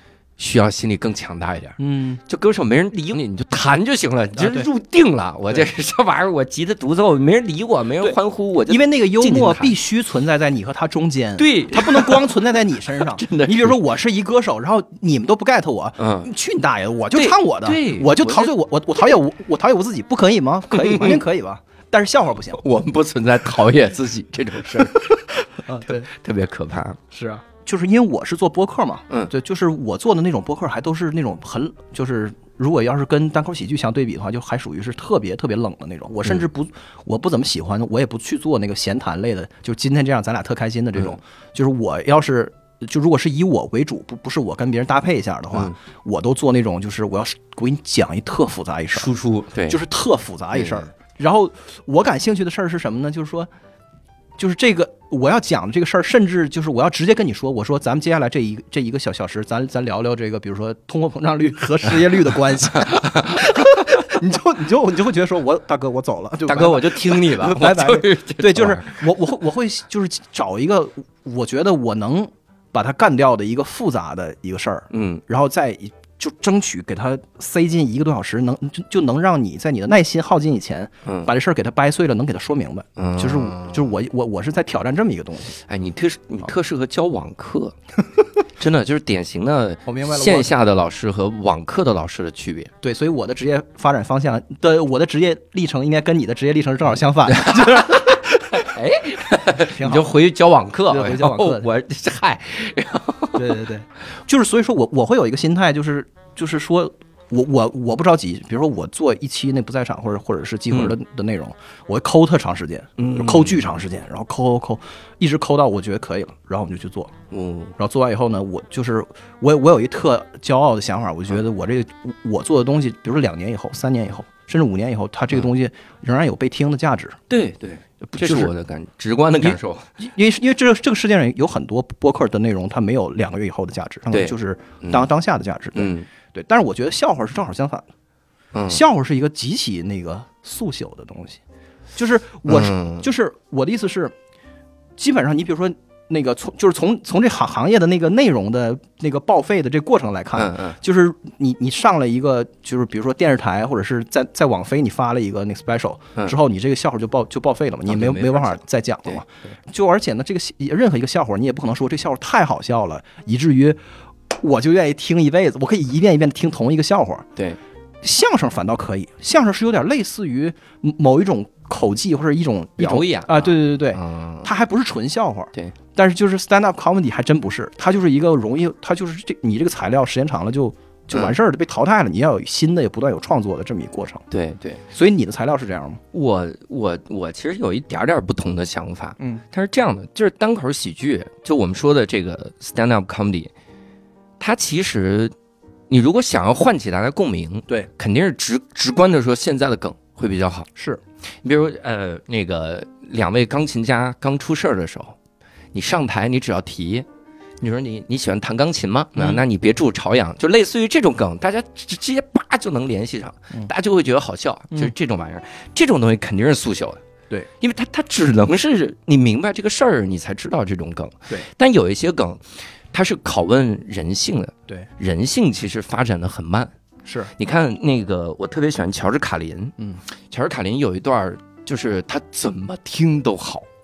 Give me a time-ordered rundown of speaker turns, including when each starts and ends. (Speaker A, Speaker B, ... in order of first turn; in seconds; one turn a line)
Speaker A: 0.4-9.8
Speaker B: 1.8-2.2
Speaker B: 4.4-4.7
Speaker B: 8.7-22.6
Speaker A: 11.4-12.4
Speaker A: 13.0-13.8
Speaker A: 16.0-16.3
Speaker A: 17.1-18.5
Speaker A: 20.7-21.2
Speaker A: 22.6-27.0
Speaker B: 24.8-26.1
Speaker B: 27.1-49.1
Speaker A: 48.9-49.8
Speaker B: 49.7-53.5
Speaker A: 50.5-50.9
Speaker B: 54.4-85.6
Speaker A: 62.8-63.7
Speaker A: 66.5-69.0
Speaker A: 74.9-75.2
Speaker A: 83.0-83.9
Speaker A: 85.6-87.8
Speaker A: 88.6-92.7
Speaker B: 89.9-90.5
Speaker B: 92.8-98.3
Speaker A: 97.3-103.5
Speaker B: 99.6-100.1
Speaker B: 100.9-101.7
Speaker B: 103.3-117.1
Speaker A: 113.0-113.7
Speaker A: 117.3-117.7
Speaker B: 117.8-127.2
Speaker A: 127.3-129.9
Speaker B: 128.2-128.5
Speaker B: 129.4-137.8
Speaker A: 134.1-135.1
Speaker A: 135.8-136.1
Speaker A: 138.5-138.8
Speaker B: 138.7-141.4
Speaker B: 141.9-144.1
Speaker A: 142.5-143.1
Speaker B: 145.0-163.8
Speaker A: 150.3-150.8
Speaker A: 157.9-159.2
Speaker B: 164.3-167.3
Speaker B: 168.0-184.2
Speaker A: 172.8-174.5
Speaker A: 184.3-184.8
Speaker B: 184.9-186.0
Speaker A: 186.1-193.5
Speaker A: 194.4-195.3
Speaker A: 195.9-200.7
Speaker B: 200.8-201.0
Speaker A: 201.4-205.2
Speaker A: 205.7-207.1
Speaker A: 207.6-217.0
Speaker A: 217.6-226.7
Speaker B: 227.1-227.3
Speaker A: 227.4-229.8
Speaker A: 230.3-233.7